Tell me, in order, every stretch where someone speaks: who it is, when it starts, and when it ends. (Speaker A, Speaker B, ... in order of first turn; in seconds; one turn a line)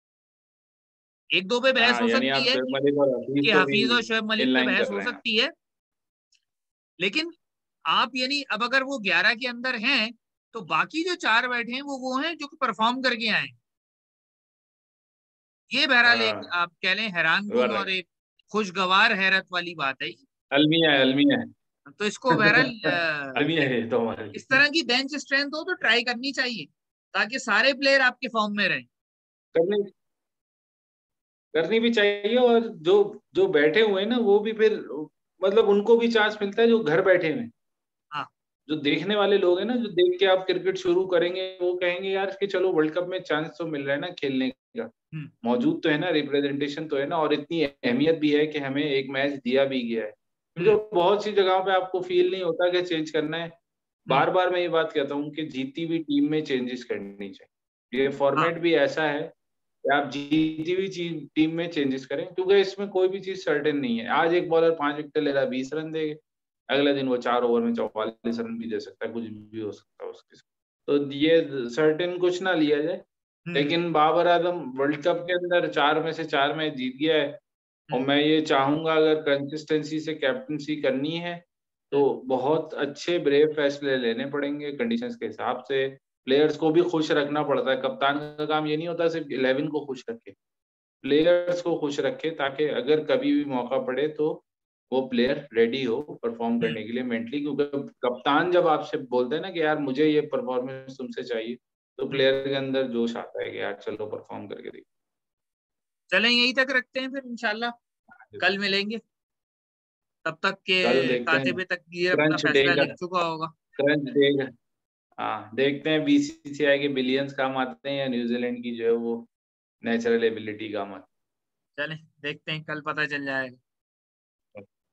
Speaker A: 1.3-2.6
Speaker B: 1.8-5.2
Speaker A: 3.4-5.5
Speaker A: 7.0-7.3
Speaker A: 7.9-13.6
Speaker A: 15.7-20.2
Speaker B: 16.1-16.5
Speaker B: 17.5-17.9
Speaker B: 20.5-21.5
Speaker A: 21.9-23.5
Speaker B: 22.3-24.6
Speaker A: 24.3-28.9
Speaker B: 29.5-29.9
Speaker B: 31.5-37.5
Speaker B: 38.7-44.9
Speaker B: 45.4-53.5
Speaker B: 54.0-59.3
Speaker B: 59.9-66.2
Speaker B: 66.7-73.0
Speaker A: 73.5-73.8
Speaker B: 73.5-77.4
Speaker B: 77.9-90.3
Speaker B: 91.0-104.8
Speaker A: 106.1-107.7
Speaker A: 108.4-109.0
Speaker A: 110.2-113.5
Speaker B: 110.8-111.6
Speaker B: 112.1-112.9
Speaker B: 113.8-114.5
Speaker B: 115.2-119.3
Speaker B: 119.8-121.1
Speaker A: 121.8-123.6